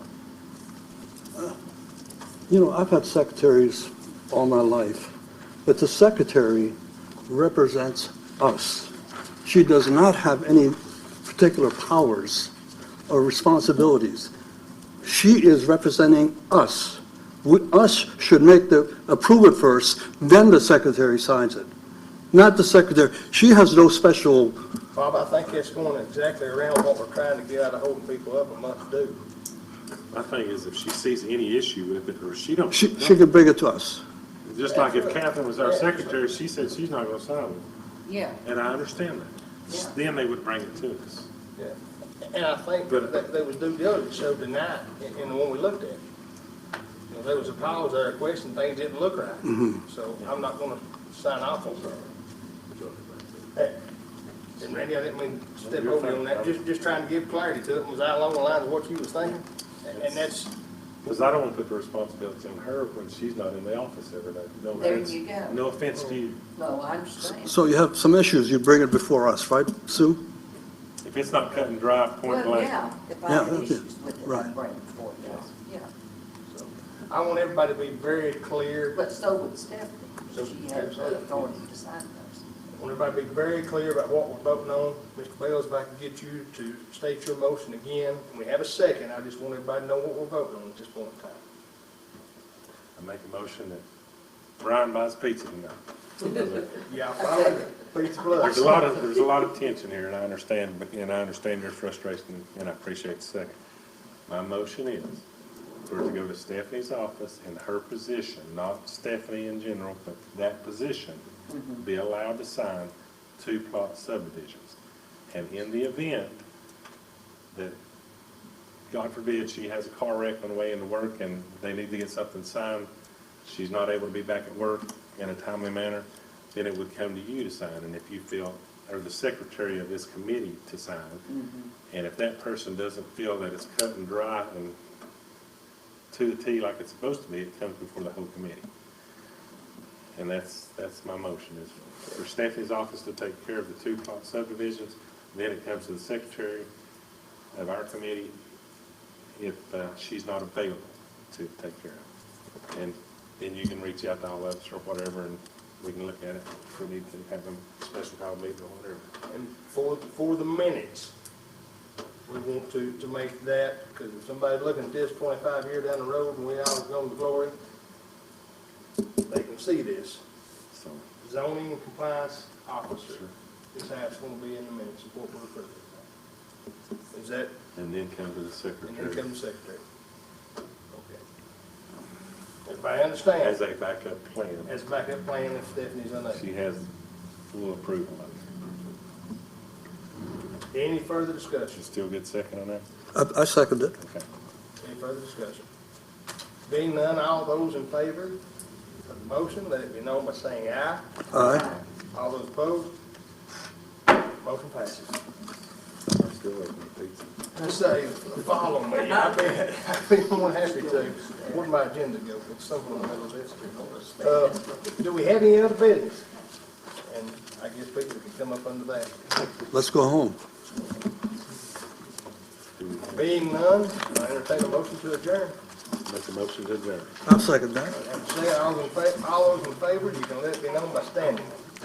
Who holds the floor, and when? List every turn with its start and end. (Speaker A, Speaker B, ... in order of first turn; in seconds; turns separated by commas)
Speaker A: 2.5-6.8, Speaker A: 7.3-8.9, Speaker A: 9.4-12.5, Speaker A: 13.1-14.3, Speaker A: 15.0-21.7, Speaker A: 22.3-24.6, Speaker B: 24.9-29.2, Speaker C: 30.1-33.2, Speaker A: 32.7-34.0, Speaker C: 34.5-37.6, Speaker B: 34.7-36.2, Speaker D: 38.0-38.4, Speaker C: 38.4-41.3, Speaker D: 39.7-39.9, Speaker B: 41.6-46.0, Speaker B: 47.1-52.1, Speaker B: 54.6-60.5, Speaker C: 55.6-56.5, Speaker C: 61.0-66.4, Speaker D: 64.8-65.6, Speaker D: 66.5-67.5, Speaker A: 67.2-70.2, Speaker C: 71.0-72.7, Speaker D: 72.2-75.9, Speaker A: 73.3-74.5, Speaker B: 76.5-79.0, Speaker D: 78.9-82.4, Speaker B: 80.3-81.5, Speaker B: 82.8-91.4, Speaker C: 93.0-93.8, Speaker C: 94.6-96.8, Speaker B: 96.8-98.8, Speaker C: 98.3-103.5, Speaker C: 104.3-105.2, Speaker C: 105.8-111.2, Speaker D: 111.5-111.8, Speaker C: 111.8-114.8, Speaker C: 115.3-116.4, Speaker C: 118.9-122.9, Speaker C: 123.4-131.2, Speaker D: 131.3-131.7, Speaker C: 131.9-134.7, Speaker C: 136.1-138.7, Speaker C: 140.2-146.7, Speaker C: 147.5-148.3, Speaker C: 149.4-152.0, Speaker C: 152.7-159.1, Speaker B: 159.3-161.1, Speaker B: 162.3-167.6, Speaker B: 169.3-170.2, Speaker C: 170.7-171.0, Speaker B: 171.2-176.0, Speaker B: 177.1-177.5, Speaker C: 177.7-179.2, Speaker B: 178.8-179.8, Speaker B: 180.9-181.2, Speaker B: 182.6-183.6, Speaker C: 183.4-184.7, Speaker B: 184.7-186.4, Speaker C: 186.3-186.9, Speaker C: 187.5-188.4, Speaker B: 190.7-191.8, Speaker C: 191.7-192.8, Speaker A: 193.1-193.9, Speaker C: 194.0-194.2, Speaker B: 194.8-195.6, Speaker B: 196.7-198.4, Speaker B: 199.1-201.6, Speaker A: 201.3-201.7, Speaker D: 201.4-201.7, Speaker B: 202.1-202.9, Speaker B: 204.4-205.2, Speaker C: 206.1-207.3, Speaker B: 207.5-216.2, Speaker D: 213.7-214.3, Speaker B: 217.1-219.1, Speaker A: 219.7-220.4, Speaker C: 222.8-223.3, Speaker B: 223.1-225.6, Speaker C: 226.0-227.1, Speaker A: 227.2-227.9, Speaker B: 227.9-231.5